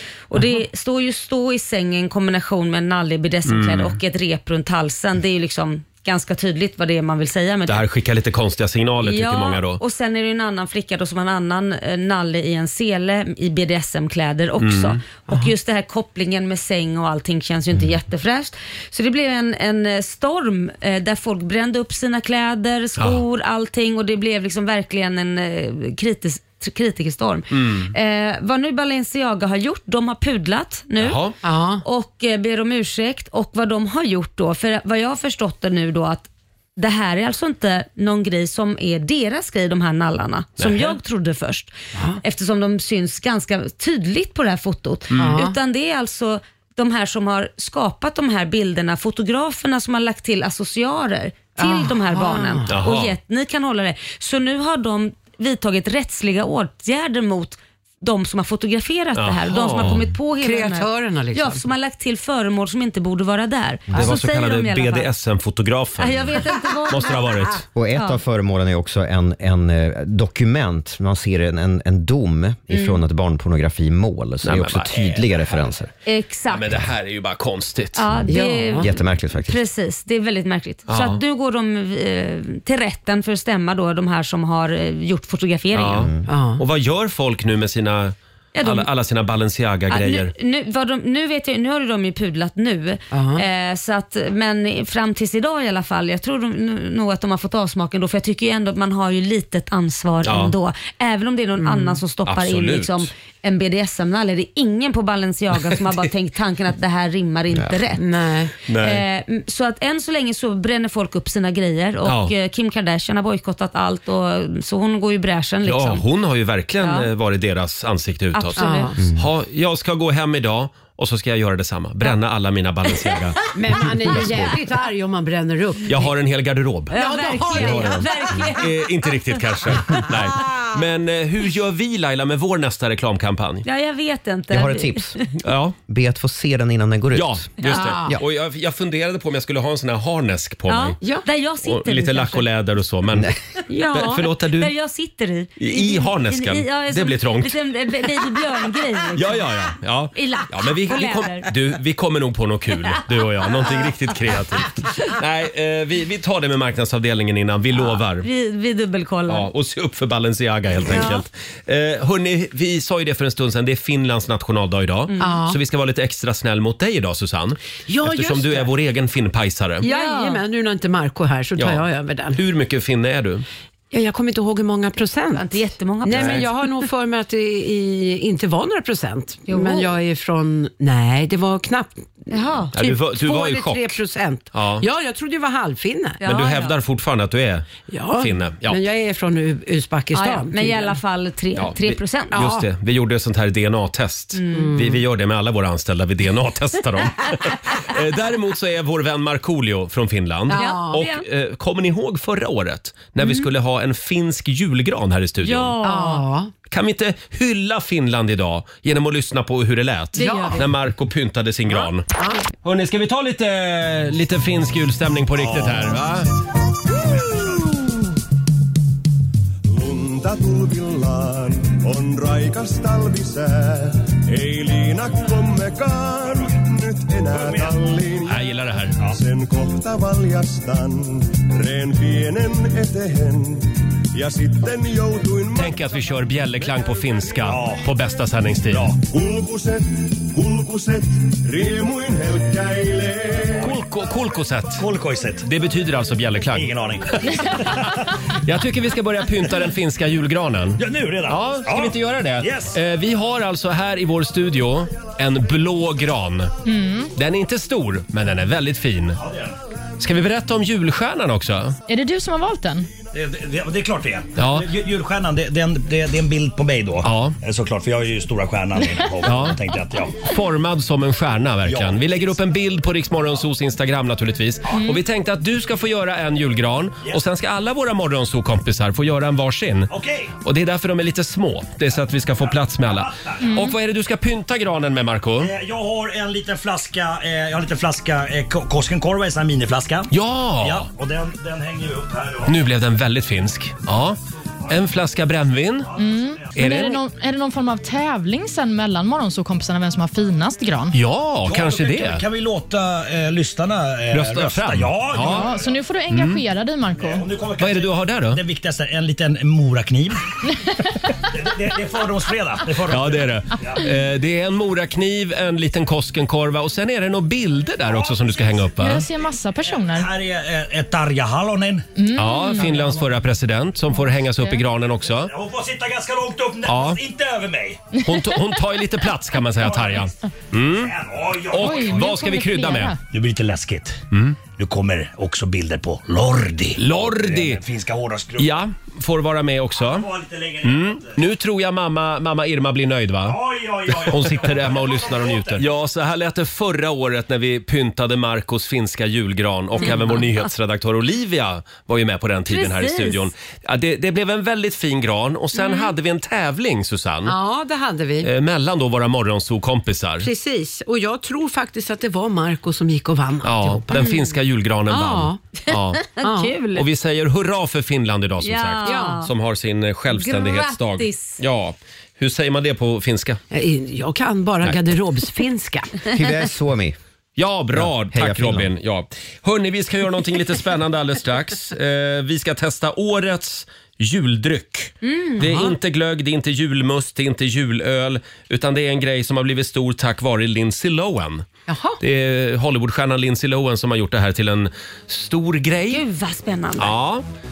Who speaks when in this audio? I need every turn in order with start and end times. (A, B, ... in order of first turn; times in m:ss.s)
0:00.3-0:07.8 A
0:03.5-0:04.0 B
0:07.7-0:09.8 B
0:09.0-0:31.2 A
0:14.6-0:15.0 B
0:27.5-0:27.9 B
0:31.0-0:31.4 B
0:31.4-0:31.8 C
0:31.8-1:05.1 A
0:40.6-0:41.0 B
0:42.0-0:42.2 C
0:45.1-0:45.4 B
0:45.2-0:45.6 C
0:51.6-0:52.8 C
0:52.7-0:53.2 B
0:59.2-1:00.0 B
1:00.4-1:01.6 C
1:03.9-1:07.6 B
1:06.0-1:07.4 A
1:07.7-1:15.9 D
1:07.9-1:08.2 A
1:12.7-1:13.0 A
1:14.4-1:15.5 B
1:16.1-1:16.6 A
1:16.5-1:18.0 B
1:18.0-1:18.9 A
1:18.1-1:19.6 D
1:18.3-1:18.9 C
1:19.4-1:26.1 A
1:20.9-1:21.2 B
1:25.7-1:30.3 B
1:26.0-1:26.2 D
1:26.3-1:26.6 C
1:28.6-1:28.9 A
1:29.9-1:48.0 A
1:33.1-1:33.4 C
1:40.2-1:40.5 B
1:41.6-1:42.0 C
1:42.3-1:43.1 B
1:48.0-1:48.5 C
1:48.7-1:49.0 B
1:48.7-1:56.0 A
1:52.0-1:52.3 B
1:55.6-2:03.4 B
1:56.8-1:57.1 A
1:58.3-1:58.9 A
1:58.6-1:59.0 C
1:59.0-1:59.3 D
2:03.5-2:06.1 C
2:05.9-2:06.9 B
2:06.9-2:08.1 C
2:06.9-2:08.9 A
2:07.6-2:08.0 D
2:08.5-2:13.7 B
2:13.6-2:15.2 A
2:14.5-2:15.2 D
2:15.4-2:15.8 B
2:15.9-2:17.5 D
2:17.1-2:21.0 B
2:17.6-2:18.1 C
2:20.7-2:22.4 A
2:21.6-2:23.4 B
2:23.7-2:29.5 A
2:23.9-2:24.7 B
2:25.6-2:27.6 B
2:29.2-2:38.3 B
2:30.2-2:31.5 A
2:37.7-2:39.5 A
2:39.3-2:49.8 B
2:40.9-2:41.2 A
2:45.1-2:45.4 A
2:45.2-2:45.6 C
2:47.9-2:48.7 C
2:49.8-2:52.4 C
2:49.8-2:50.4 A
2:51.6-2:53.5 B
2:53.9-3:06.2 C
2:55.4-2:56.6 A
2:56.1-2:56.4 B
2:59.5-2:59.9 A
3:02.3-3:02.7 A
3:02.7-3:04.0 B
3:04.5-3:04.9 B
3:06.2-3:06.8 A
3:06.2-3:08.8 B
3:07.9-3:11.0 C
3:10.1-3:12.4 A
3:11.6-3:25.8 B
3:12.3-3:12.7 C
3:14.3-3:14.8 A
3:14.5-3:15.0 C
3:20.5-3:21.0 C
3:20.5-3:21.2 A
3:23.2-3:23.5 A
3:25.4-3:26.2 A
3:25.8-3:26.5 C
3:26.7-3:32.1 B
3:30.2-3:30.6 A
3:30.2-3:30.7 C
3:32.2-3:32.4 C
3:32.6-3:36.3 B
3:35.4-3:36.0 E
3:37.3-3:37.5 E
3:39.7-3:48.4 F
3:46.3-3:46.5 E
3:47.3-3:47.8 E
3:48.3-3:49.0 B
3:49.0-3:57.3 F
3:55.6-3:58.9 B
3:57.5-3:57.9 E
3:58.7-3:59.0 E
3:59.0-4:03.7 F
4:03.6-4:04.9 B
4:04.8-4:05.5 E
4:05.4-4:16.5 B
4:06.5-4:08.2 E
4:10.8-4:12.8 E
4:16.6-4:17.1 G
4:17.2-4:19.2 B
4:19.2-4:19.6 E
4:20.0-4:21.8 B
4:21.9-4:22.9 G
4:23.1-4:30.3 E
4:24.4-4:24.7 B
4:27.0-4:27.4 B
4:29.2-4:29.6 B
4:30.2-4:39.9 B
4:31.6-4:32.4 E
4:39.9-4:40.3 E
4:40.4-4:45.5 B
4:42.4-4:43.6 E
4:43.4-4:43.7 G
4:45.4-4:52.6 E
4:50.1-4:50.9 B
4:52.5-4:55.9 B
4:54.7-4:54.9 E
4:55.8-4:56.7 E
4:56.0-5:01.0 G
4:56.6-4:57.0 B
5:00.9-5:02.2 B
5:01.4-5:05.8 E
5:04.1-5:05.5 B
5:05.2-5:07.3 G
5:06.1-5:06.4 B
5:07.0-5:10.2 E
5:07.6-5:08.4 B
5:11.2-5:13.9 E
5:12.9-5:19.0 B
5:17.8-5:23.2 E
5:18.8-5:20.1 G
5:22.0-5:22.8 G
5:22.1-5:25.3 B
5:25.0-5:28.0 E
5:26.7-5:27.0 B
5:28.0-5:30.9 B
5:29.6-5:32.2 E
5:31.5-5:33.0 B
5:31.6-5:33.0 G
5:33.1-5:38.6 E
5:34.1-5:34.4 B
5:36.8-5:37.6 B
5:38.4-5:40.1 B
5:39.8-5:41.2 E
5:40.6-5:57.4 B
5:43.2-5:45.6 E
5:49.8-5:50.2 C
5:52.5-5:53.3 A
5:55.5-5:55.9 A
5:57.3-5:58.3 C
5:58.2-6:00.3 B
6:00.2-6:04.3 C
6:03.4-6:06.1 B
6:03.9-6:04.2 A
6:04.9-6:05.4 C
6:05.6-6:06.8 A
6:06.2-6:06.5 C
6:06.7-6:13.4 B
6:08.4-6:09.3 A
6:08.8-6:09.2 C
6:10.1-6:11.4 A
6:13.5-6:16.1 C
6:16.1-6:17.0 D
6:17.4-6:31.5 B
6:17.7-6:18.7 D
6:25.0-6:25.4 A
6:25.4-6:25.8 C
6:31.7-6:32.0 C
6:32.0-6:36.0 B
6:35.9-6:36.9 A
6:36.8-6:37.2 B